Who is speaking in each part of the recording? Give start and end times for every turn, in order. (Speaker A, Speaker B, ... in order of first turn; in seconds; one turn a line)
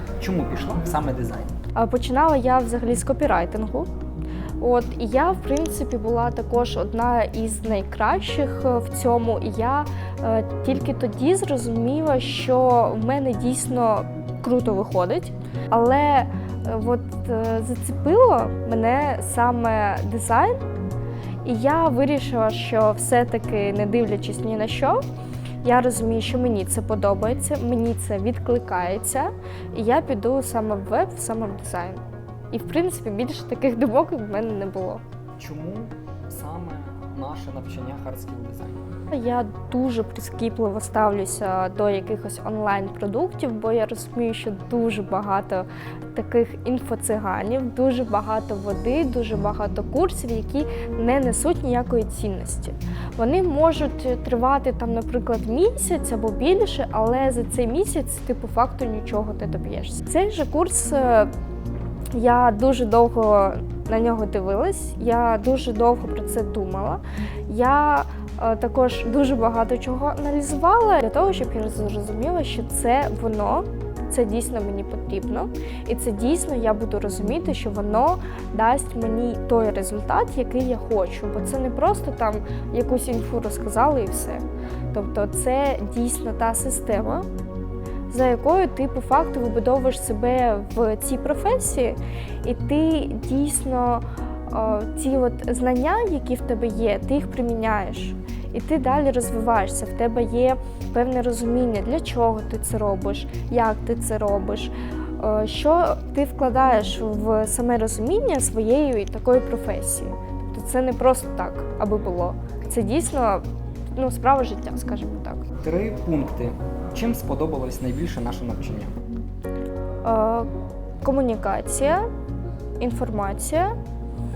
Speaker A: 0.2-1.5
Speaker B: 1.8-3.9
Speaker B: 4.6-20.6
Speaker B: 21.4-25.0
Speaker B: 25.6-35.0
Speaker A: 35.4-38.8
Speaker B: 39.1-61.3
Speaker B: 62.1-87.2
Speaker B: 88.1-113.4
Speaker B: 114.0-115.5
Speaker A: 115.6-119.0
Speaker B: 120.0-120.5
Speaker B: 121.0-122.1
Speaker B: 122.8-123.7